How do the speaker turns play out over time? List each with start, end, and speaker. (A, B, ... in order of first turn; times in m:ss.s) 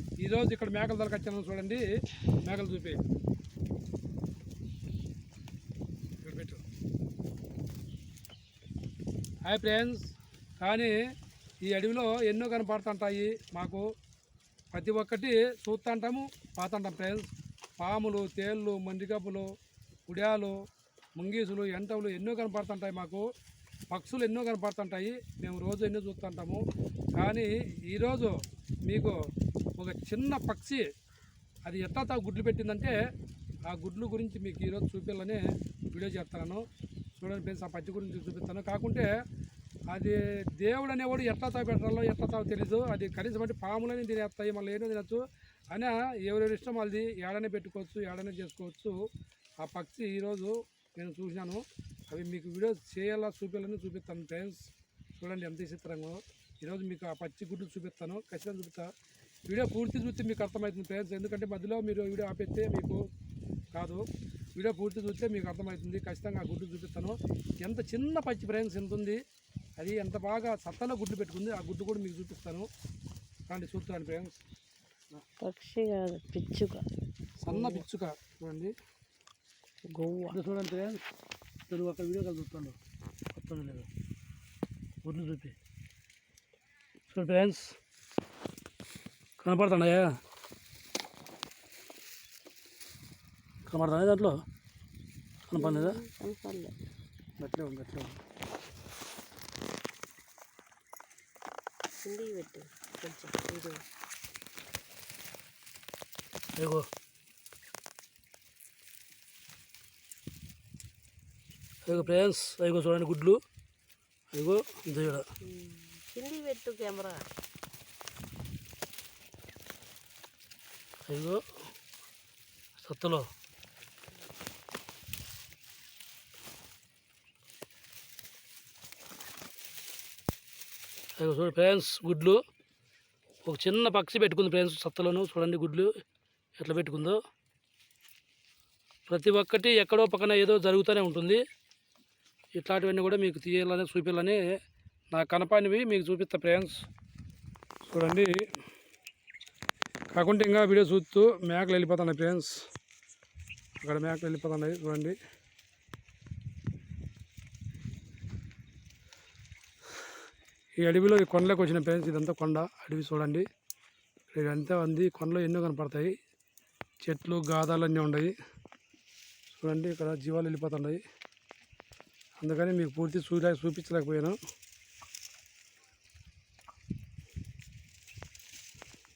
0:00.2-0:01.8 A
0:02.4-0:03.0 A
0:06.2-0:06.6 A
0:09.5-0:10.0 A
0:10.6-0:10.9 A
0:11.7-0:13.9 A
0:14.7-0:19.5 A
0:20.1-0:20.6 A
0:21.2-0:23.2 A
0:23.9-0:26.6 A
0:27.2-0:28.3 A
0:28.9-0:29.1 A
0:29.8-0:30.8 A
0:31.6-0:32.9 A
0:33.7-0:35.4 A
0:35.9-0:36.6 A
0:37.2-0:39.1 A
0:39.9-0:49.0 A
0:49.6-0:54.7 A
0:55.2-0:58.9 A
0:59.5-1:03.0 A
1:03.7-1:04.0 A
1:04.6-1:09.2 A
1:09.8-1:12.7 A
1:13.5-1:14.4 A
1:15.4-1:16.9 B
1:17.4-1:18.7 A
1:17.5-1:17.8 B
1:19.9-1:20.4 B
1:20.3-1:21.0 A
1:21.7-1:22.8 A
1:23.3-1:23.9 A
1:25.0-1:25.5 A
1:27.1-1:27.7 A
1:29.4-1:30.1 A
1:33.7-1:34.4 A
1:35.5-1:36.0 A
1:35.6-1:36.8 B
1:37.4-1:38.2 A
1:42.0-1:43.8 B
1:46.6-1:46.8 A
1:51.9-1:53.4 A
1:54.3-1:55.2 A
1:55.0-1:57.2 B
2:01.1-2:01.4 A
2:02.8-2:03.2 A
2:11.2-2:12.4 A
2:13.4-2:15.9 A
2:16.6-2:17.2 A
2:19.1-2:21.4 A
2:22.6-2:24.4 A
2:25.1-2:26.7 A
2:27.8-2:28.3 A
2:30.1-2:32.5 A
2:33.8-2:35.2 A
2:40.8-2:43.4 A
2:44.3-2:46.1 A
2:47.0-2:48.3 A
2:49.5-2:51.0 A
2:52.4-2:54.4 A